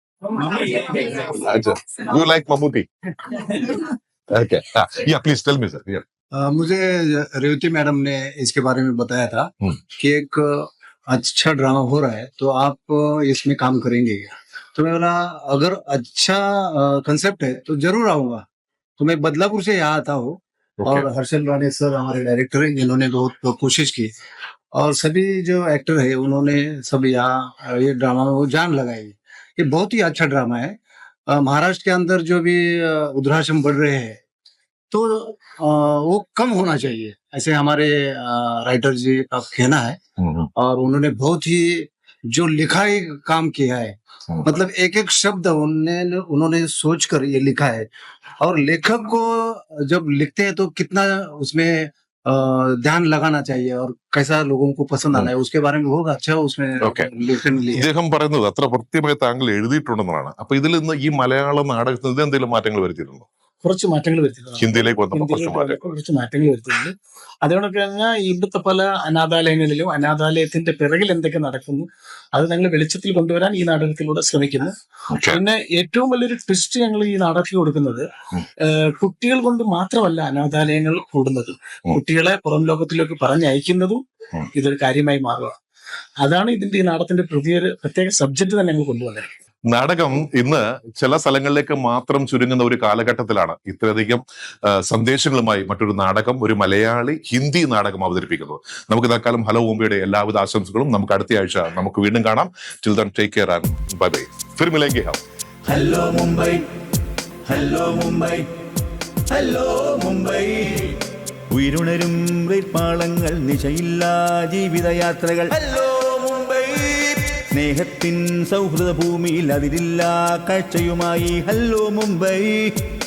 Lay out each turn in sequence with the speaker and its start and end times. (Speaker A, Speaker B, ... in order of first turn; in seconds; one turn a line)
Speaker A: 0.6-6.0
Speaker B: 6.3-18.4
Speaker B: 19.0-24.1
Speaker A: 20.8-21.1
Speaker B: 24.7-30.7
Speaker B: 31.3-34.2
Speaker B: 34.9-40.0
Speaker A: 40.2-40.5
Speaker B: 40.6-47.9
Speaker B: 48.4-57.9
Speaker A: 56.8-57.1
Speaker A: 57.7-63.3
Speaker C: 63.6-78.1
Speaker A: 64.6-65.8
Speaker A: 75.1-75.4
Speaker C: 78.6-84.0
Speaker C: 84.5-85.5
Speaker C: 86.2-89.3
Speaker A: 89.7-105.2
Speaker D: 105.7-106.6
Speaker D: 107.5-108.5
Speaker D: 109.3-111.0
Speaker D: 111.5-122.7